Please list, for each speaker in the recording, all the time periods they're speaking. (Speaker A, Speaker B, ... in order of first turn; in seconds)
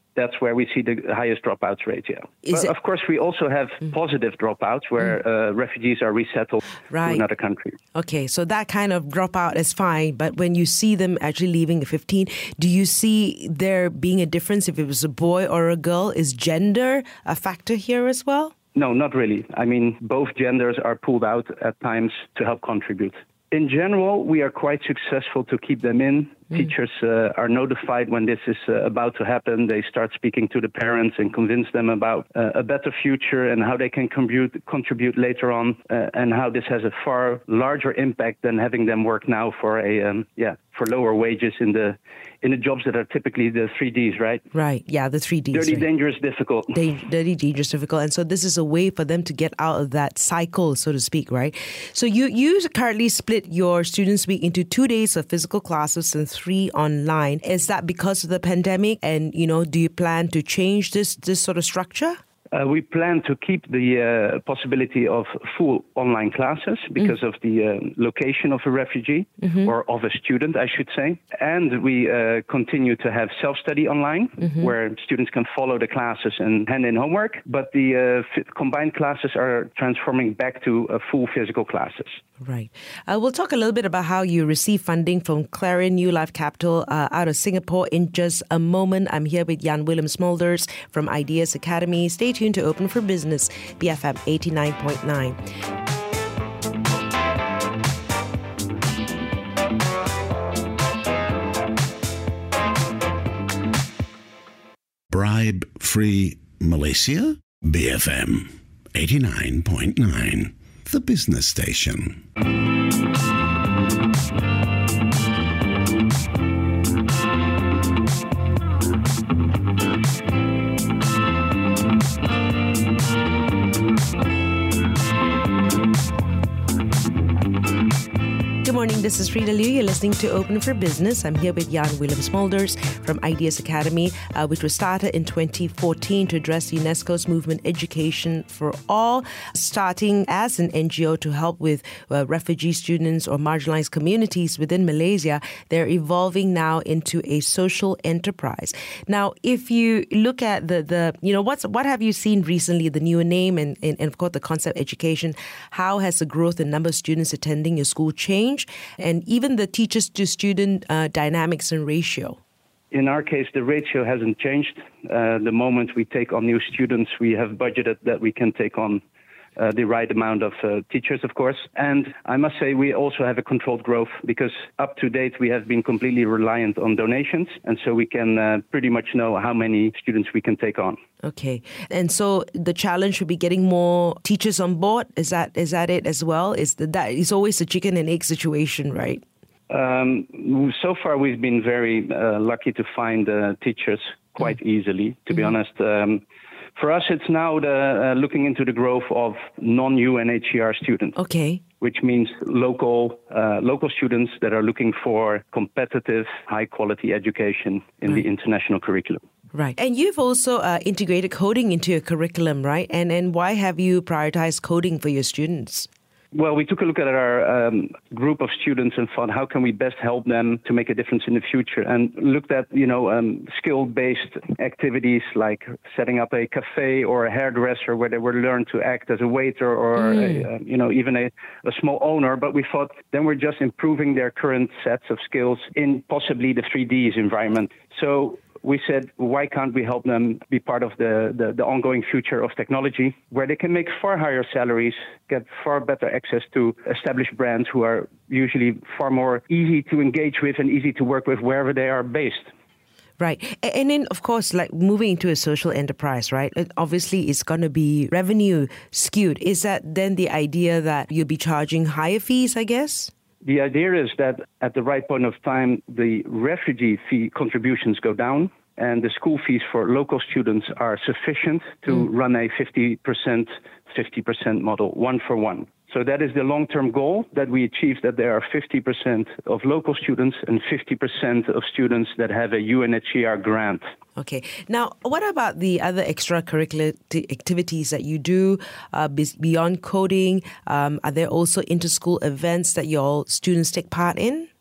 Speaker A: 0.1-7.8, 18.8-44.4, 45.5-46.8, 62.5-82.2, 162.9-169.0, 169.6-181.0, 189.7-196.2, 196.8-201.2, 201.8-209.2, 216.3-252.5, 263.4-283.9
Speaker B: 2.4-2.7, 6.9-7.3, 8.0-18.5, 44.5-45.9, 46.7-62.2, 82.4-95.4, 128.6-162.4, 181.2-189.2, 201.2-201.6, 209.5-215.9, 230.0-230.5, 253.2-263.1, 284.2-294.5
Speaker C: 105.1-112.2